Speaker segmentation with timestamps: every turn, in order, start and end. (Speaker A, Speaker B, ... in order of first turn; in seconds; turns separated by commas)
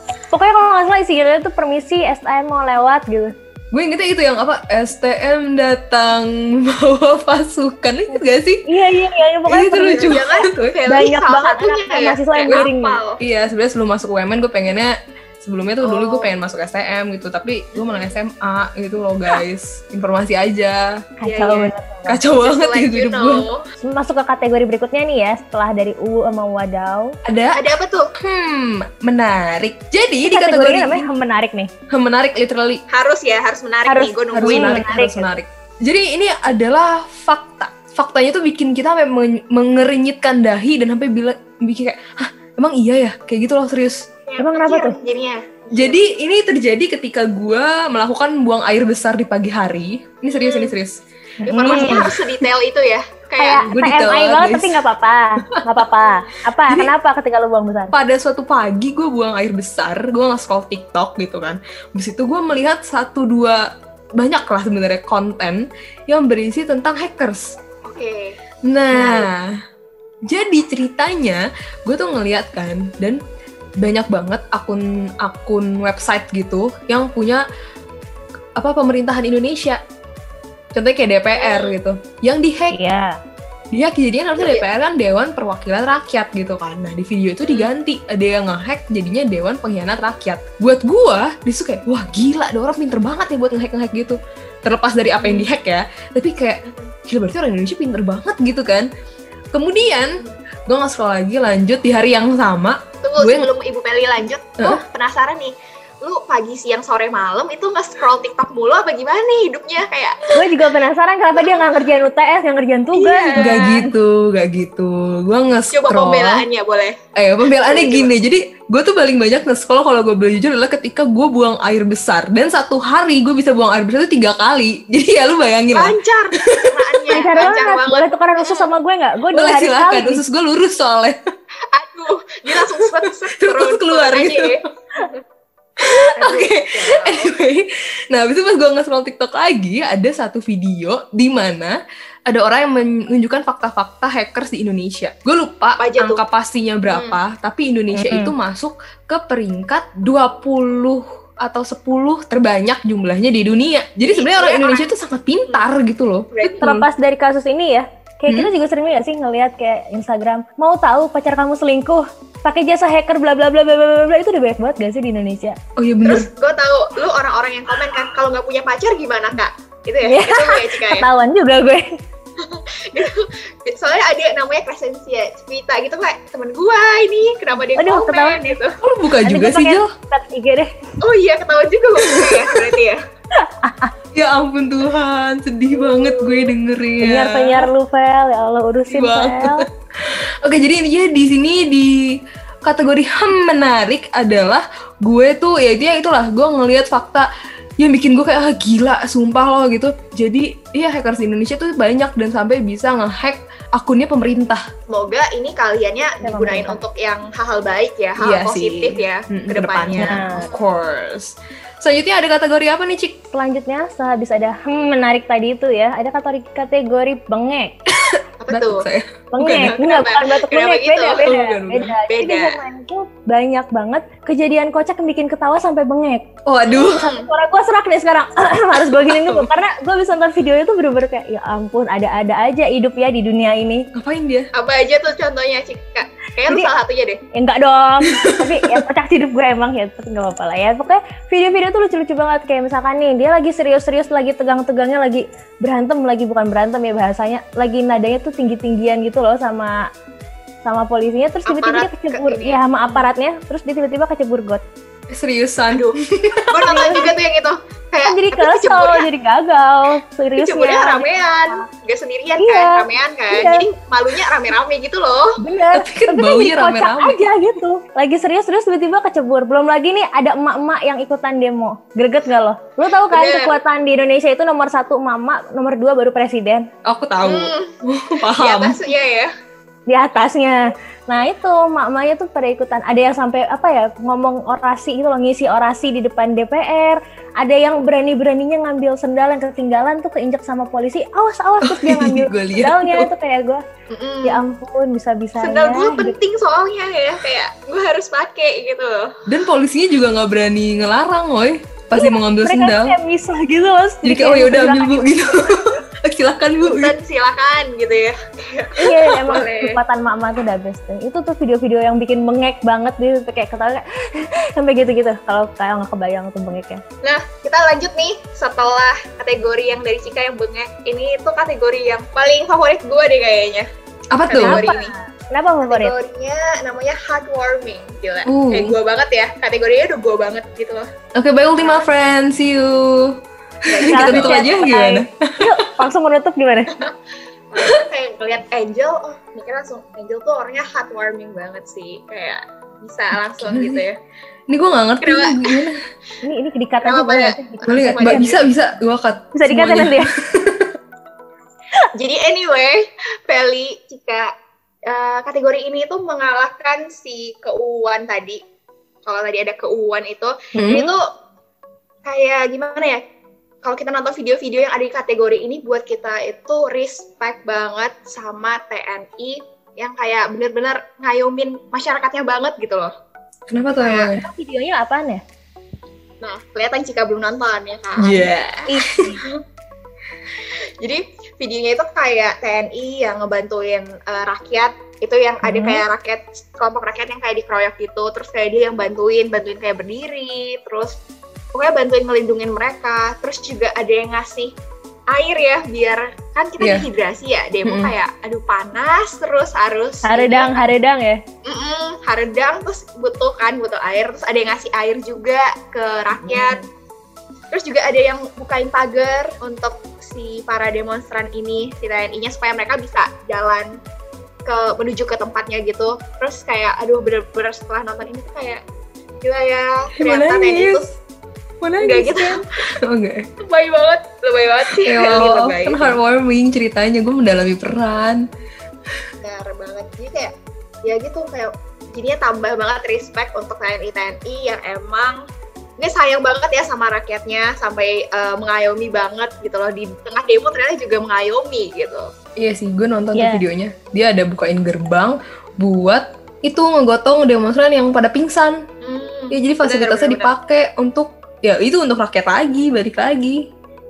Speaker A: 0.3-3.3, Speaker B: 3.7-8.7, Speaker A: 8.7-10.2, Speaker B: 9.5-10.8, Speaker C: 9.9-13.2, Speaker A: 10.9-13.0, Speaker B: 13.2-21.0, Speaker C: 15.8-16.3, Speaker C: 17.8-18.1, Speaker A: 21.2-22.2, Speaker C: 21.2-21.7, Speaker B: 22.1-23.5, Speaker C: 22.2-23.6, Speaker A: 23.8-27.2, Speaker B: 27.2-27.6, Speaker C: 27.5-28.1, Speaker B: 28.2-31.1, Speaker A: 30.3-31.7, Speaker B: 31.9-32.8, Speaker C: 32.9-34.9, Speaker A: 33.9-35.3, Speaker B: 34.3-44.1, Speaker C: 44.3-46.0, Speaker A: 44.4-45.0, Speaker B: 45.7-51.0, Speaker C: 50.3-50.8, Speaker A: 51.4-52.1, Speaker C: 51.5-53.7, Speaker B: 51.6-52.2, Speaker A: 53.4-57.9, Speaker B: 53.6-54.8, Speaker B: 57.9-67.6, Speaker C: 67.8-68.4, Speaker B: 68.6-69.5, Speaker C: 68.9-69.3, Speaker B: 70.2-73.2, Speaker B: 73.8-77.5, Speaker B: 78.6-79.8, Speaker B: 80.7-82.8, Speaker C: 81.3-81.8, Speaker A: 82.7-83.2, Speaker B: 83.7-98.9, Speaker C: 84.4-84.6, Speaker C: 87.4-87.7, Speaker C: 95.2-95.5, Speaker C: 96.6-96.9, Speaker B: 99.5-103.5, Speaker C: 103.0-110.6, Speaker A: 110.3-113.9, Speaker C: 111.4-111.7, Speaker C: 112.9-113.8, Speaker B: 113.3-116.5, Speaker C: 115.7-118.1, Speaker B: 117.2-127.0, Speaker C: 125.7-128.7, Speaker A: 127.1-130.2, Speaker B: 129.3-131.2, Speaker C: 131.7-135.2, Speaker B: 132.5-134.6, Speaker B: 135.8-156.9, Speaker C: 135.8-137.3, Speaker C: 145.8-146.2, Speaker C: 146.9-147.2, Speaker A: 147.9-148.3, Speaker C: 154.0-154.9, Speaker C: 156.3-156.7, Speaker A: 156.6-165.6, Speaker B: 165.8-166.3, Speaker C: 166.0-171.1, Speaker A: 170.1-172.0, Speaker C: 172.4-178.8, Speaker A: 177.8-178.6, Speaker B: 178.8-179.9, Speaker A: 179.2-180.7, Speaker C: 181.0-183.0, Speaker A: 183.4-183.9, Speaker B: 184.1-187.7, Speaker C: 185.8-186.5, Speaker A: 187.0-189.7, Speaker B: 188.9-197.3, Speaker B: 197.8-204.6, Speaker C: 204.9-210.6, Speaker A: 206.2-206.8, Speaker B: 208.2-213.2, Speaker A: 210.0-210.5, Speaker A: 213.3-217.8, Speaker B: 217.9-219.8, Speaker C: 218.4-218.9, Speaker A: 219.3-233.9, Speaker C: 219.5-221.3, Speaker B: 221.2-221.9, Speaker C: 222.1-222.6, Speaker B: 226.5-227.1, Speaker C: 226.8-227.3, Speaker B: 228.7-229.5, Speaker B: 233.9-234.5, Speaker C: 234.5-237.2, Speaker A: 237.3-249.9, Speaker B: 238.1-238.8, Speaker A: 250.6-254.6, Speaker C: 251.5-253.1, Speaker B: 255.1-256.7, Speaker C: 255.7-259.1, Speaker A: 256.6-257.1, Speaker A: 258.1-261.6, Speaker C: 260.4-265.4, Speaker A: 262.4-263.7, Speaker A: 265.4-276.7, Speaker B: 265.7-267.3, Speaker C: 273.1-273.6, Speaker B: 276.9-278.8, Speaker C: 277.2-279.3, Speaker A: 279.9-293.6, Speaker B: 291.6-293.1, Speaker C: 293.9-294.4, Speaker A: 294.2-296.2, Speaker C: 295.4-299.2, Speaker B: 299.2-302.9, Speaker A: 302.0-305.2, Speaker B: 304.0-306.9, Speaker C: 306.6-309.8, Speaker A: 308.8-316.8, Speaker C: 317.0-323.7, Speaker B: 324.1-324.6, Speaker C: 324.3-324.9, Speaker A: 324.4-325.9, Speaker C: 325.6-330.9, Speaker B: 328.2-328.8, Speaker B: 331.1-335.4, Speaker C: 331.6-331.9, Speaker C: 333.7-334.5, Speaker A: 333.9-336.8, Speaker C: 337.5-344.0, Speaker B: 343.4-343.8, Speaker B: 344.5-345.8, Speaker C: 345.0-345.7, Speaker A: 346.2-348.3, Speaker C: 346.8-348.4, Speaker B: 347.7-350.7, Speaker A: 349.4-350.1, Speaker C: 351.9-354.3, Speaker C: 354.9-358.4, Speaker C: 359.1-361.0, Speaker B: 360.6-360.8, Speaker A: 360.6-360.9, Speaker C: 362.1-363.0, Speaker C: 363.6-372.9, Speaker B: 373.5-374.2, Speaker C: 373.8-374.1, Speaker A: 374.1-375.2, Speaker C: 376.2-378.6, Speaker B: 378.0-379.2, Speaker A: 378.7-379.2, Speaker C: 380.8-391.0, Speaker A: 385.4-385.8, Speaker C: 391.5-394.5, Speaker C: 395.1-400.6, Speaker B: 396.6-396.9, Speaker B: 397.6-397.9, Speaker A: 400.0-401.2, Speaker C: 401.4-406.6, Speaker C: 407.5-413.8, Speaker C: 414.4-418.6, Speaker C: 419.2-420.9, Speaker B: 420.0-420.9, Speaker B: 421.6-423.3, Speaker C: 421.8-422.4, Speaker C: 423.4-426.0, Speaker B: 424.7-428.2, Speaker C: 429.2-430.3, Speaker C: 430.8-435.2, Speaker C: 435.8-442.1, Speaker B: 442.4-448.7, Speaker A: 443.1-443.4, Speaker C: 448.8-450.3, Speaker B: 449.3-453.5